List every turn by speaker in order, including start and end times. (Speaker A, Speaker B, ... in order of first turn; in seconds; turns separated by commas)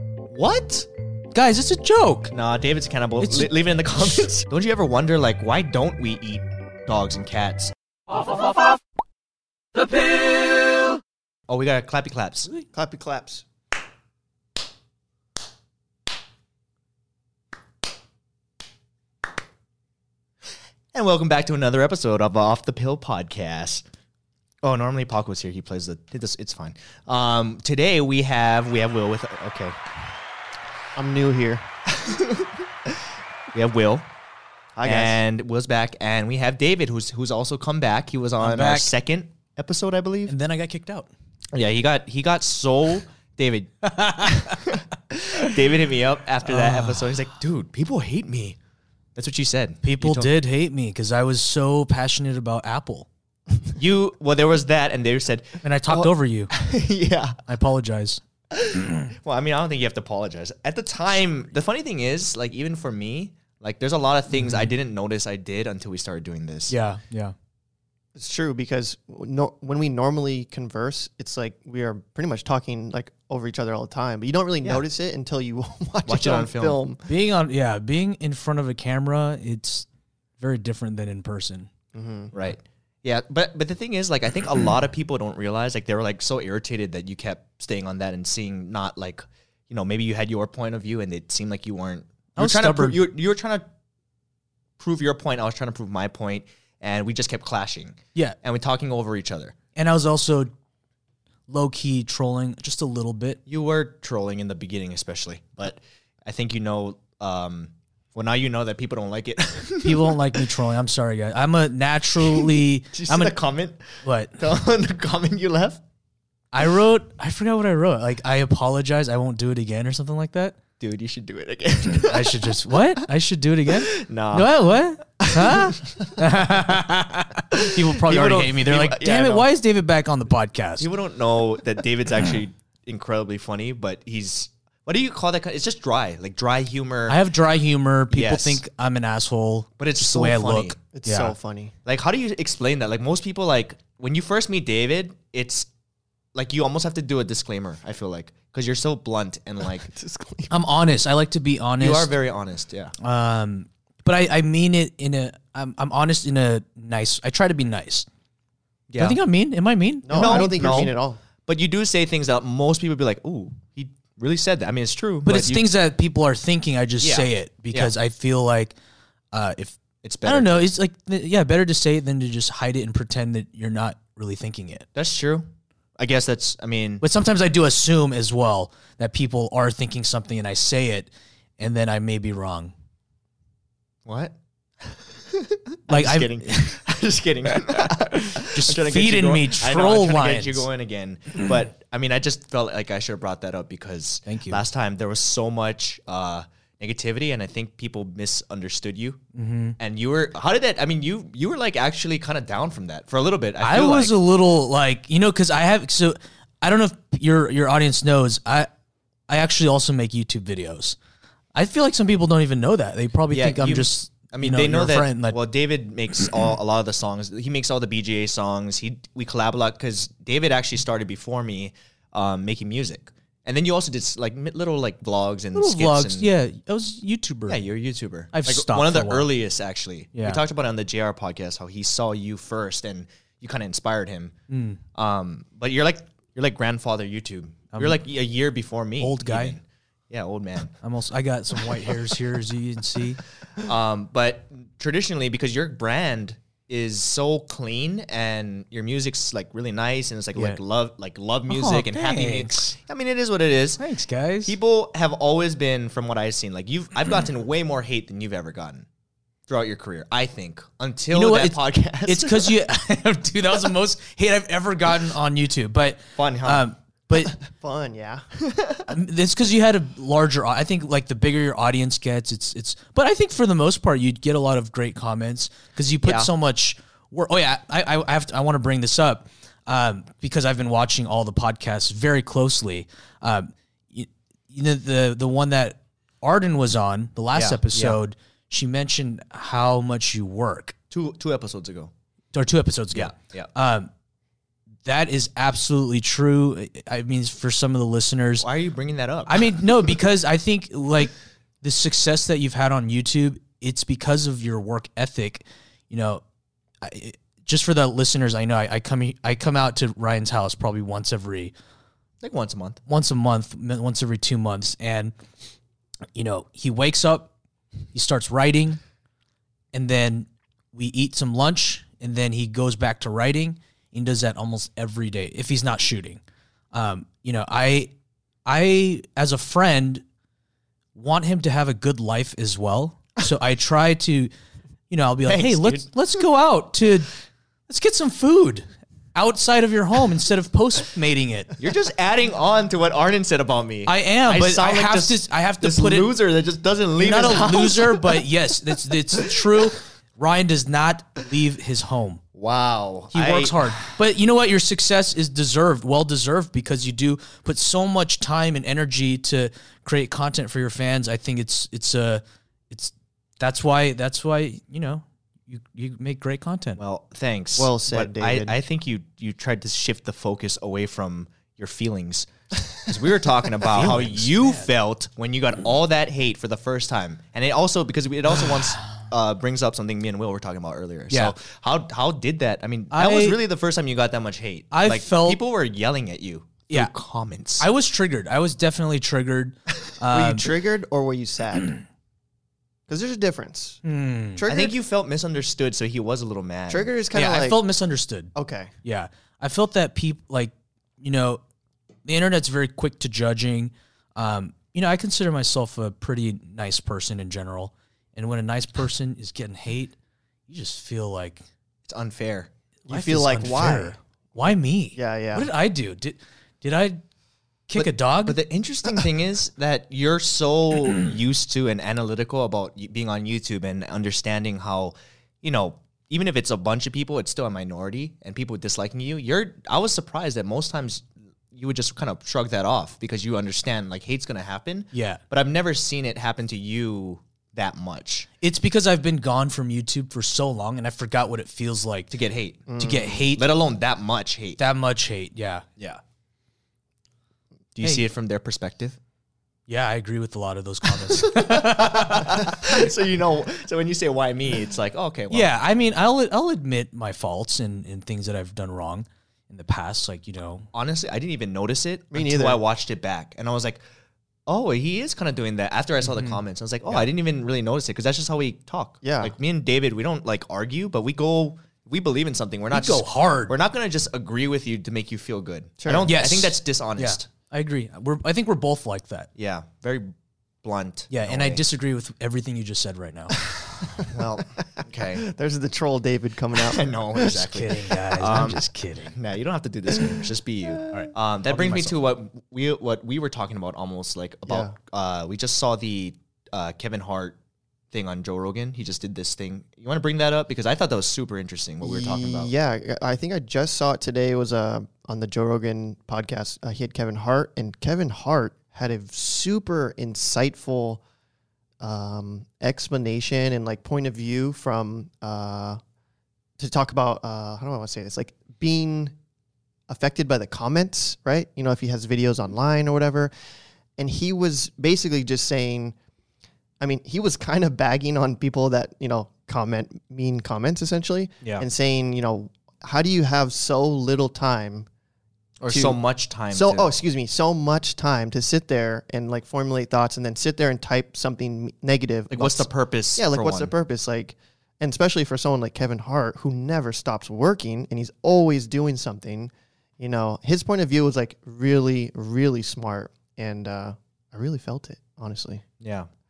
Speaker A: 0.3-0.9, Speaker B: 1.3-2.3, Speaker A: 2.3-7.7, Speaker B: 3.2-3.5, Speaker B: 9.8-10.9, Speaker A: 11.5-12.5, Speaker C: 12.7-13.5, Speaker A: 20.9-23.8, Speaker A: 24.6-29.8, Speaker C: 31.0-31.6, Speaker A: 32.0-32.5, Speaker A: 33.5-34.1, Speaker C: 34.8-35.2, Speaker A: 34.8-40.3, Speaker B: 38.4-38.9, Speaker B: 40.3-41.1, Speaker A: 41.5-48.6, Speaker B: 43.8-44.7, Speaker B: 46.5-47.1, Speaker A: 49.2-50.3, Speaker B: 49.8-53.1, Speaker A: 53.7-57.4, Speaker B: 55.6-56.5, Speaker B: 57.5-58.2, Speaker A: 58.5-66.7, Speaker B: 64.3-64.7, Speaker B: 66.7-67.3, Speaker C: 68.2-77.1, Speaker A: 76.1-76.8, Speaker B: 77.1-79.9, Speaker B: 80.4-81.7, Speaker C: 81.9-82.3, Speaker A: 82.3-93.7, Speaker B: 92.4-93.0, Speaker A: 94.8-99.5, Speaker B: 99.8-100.5, Speaker B: 101.5-103.4, Speaker A: 103.5-110.4, Speaker B: 109.8-113.4, Speaker A: 112.2-115.8, Speaker B: 114.0-114.4, Speaker B: 116.5-120.6, Speaker A: 120.8-122.5, Speaker B: 122.0-130.9, Speaker A: 123.7-124.5, Speaker A: 125.2-126.2, Speaker A: 127.5-129.5, Speaker A: 130.8-137.2, Speaker B: 137.1-141.3, Speaker A: 138.1-138.6, Speaker A: 139.8-140.8, Speaker C: 140.9-141.7, Speaker A: 141.9-145.7, Speaker A: 146.3-149.9, Speaker C: 149.9-150.5, Speaker B: 150.5-152.1, Speaker A: 151.8-152.9, Speaker B: 153.0-158.1, Speaker A: 158.9-159.2, Speaker B: 159.0-160.6, Speaker C: 160.1-161.2, Speaker A: 160.1-160.9, Speaker A: 161.5-165.7, Speaker B: 165.2-168.7, Speaker A: 167.0-167.9, Speaker B: 169.3-174.9, Speaker A: 170.0-170.7, Speaker A: 174.9-175.4, Speaker A: 176.0-177.0, Speaker B: 177.0-182.7, Speaker A: 184.1-199.2, Speaker B: 185.9-186.8, Speaker B: 188.3-190.7, Speaker B: 194.3-194.6, Speaker B: 199.3-199.8, Speaker A: 199.8-204.2, Speaker B: 203.6-208.7, Speaker B: 209.3-211.0, Speaker B: 211.6-215.4, Speaker A: 213.3-226.3, Speaker B: 225.5-227.6, Speaker A: 227.5-234.3, Speaker B: 228.3-229.3, Speaker B: 230.2-230.4, Speaker B: 234.5-234.8, Speaker A: 234.9-240.7, Speaker B: 237.7-238.0, Speaker B: 239.0-239.6, Speaker B: 240.8-243.2, Speaker A: 243.6-253.8, Speaker B: 250.3-250.6, Speaker B: 251.5-252.8, Speaker B: 253.8-254.6, Speaker A: 254.4-258.9, Speaker A: 259.5-262.6, Speaker B: 261.1-267.4, Speaker A: 266.2-266.6, Speaker C: 267.4-268.3, Speaker A: 268.5-268.9, Speaker B: 268.9-290.8, Speaker A: 276.0-276.3, Speaker A: 287.4-288.0, Speaker A: 290.9-291.9, Speaker B: 292.3-293.9, Speaker A: 292.9-293.5, Speaker B: 294.9-298.5, Speaker A: 298.4-299.5, Speaker B: 299.3-306.2, Speaker B: 306.8-311.5, Speaker A: 312.2-312.8, Speaker B: 312.9-315.1, Speaker B: 316.1-317.3, Speaker B: 317.9-318.8, Speaker B: 319.7-326.2, Speaker B: 326.7-327.9, Speaker B: 328.4-330.0, Speaker B: 330.9-334.3, Speaker B: 334.9-337.1, Speaker A: 335.3-335.9, Speaker B: 337.7-341.5, Speaker A: 341.6-348.2, Speaker B: 343.9-346.1, Speaker B: 347.0-352.2, Speaker A: 352.4-353.6, Speaker B: 353.1-366.8, Speaker A: 366.8-387.7, Speaker C: 367.6-368.6, Speaker B: 373.7-374.7, Speaker B: 381.1-381.4, Speaker B: 382.9-383.4, Speaker B: 384.7-385.4, Speaker B: 387.6-390.5, Speaker C: 390.1-391.7, Speaker C: 392.9-393.8, Speaker B: 393.8-394.4, Speaker C: 394.4-394.8, Speaker A: 394.4-396.9, Speaker C: 396.7-397.6, Speaker B: 397.1-401.4, Speaker C: 398.4-398.7, Speaker B: 402.1-409.9, Speaker B: 410.5-411.4, Speaker A: 411.9-412.5, Speaker C: 412.9-414.0, Speaker B: 412.9-417.0, Speaker C: 414.9-415.5, Speaker B: 417.7-418.4, Speaker A: 417.8-438.3, Speaker B: 434.9-435.2, Speaker B: 438.4-442.1, Speaker A: 442.1-444.6, Speaker C: 442.7-443.2, Speaker B: 442.8-443.4, Speaker B: 444.6-445.7, Speaker A: 447.8-449.0, Speaker B: 449.7-452.7, Speaker A: 451.0-455.5, Speaker B: 455.3-460.7, Speaker A: 460.7-463.8, Speaker C: 462.1-462.6, Speaker A: 464.5-477.2, Speaker B: 466.1-466.4, Speaker C: 469.0-469.3, Speaker B: 472.7-473.5, Speaker C: 475.8-476.1, Speaker B: 476.1-479.3, Speaker A: 479.4-481.6, Speaker B: 481.1-483.4, Speaker C: 483.8-487.4, Speaker A: 484.0-485.2, Speaker A: 486.5-497.4, Speaker B: 487.2-489.2, Speaker C: 489.9-490.2, Speaker C: 490.7-491.1, Speaker B: 490.9-491.9, Speaker C: 494.5-494.7, Speaker A: 497.9-502.5, Speaker C: 501.8-511.0, Speaker C: 511.8-515.8, Speaker C: 516.6-519.1, Speaker C: 519.9-523.3, Speaker C: 524.0-526.0, Speaker C: 526.8-534.9, Speaker A: 535.6-536.9, Speaker C: 535.7-536.0, Speaker C: 536.5-555.6, Speaker A: 542.3-543.7, Speaker A: 555.8-556.1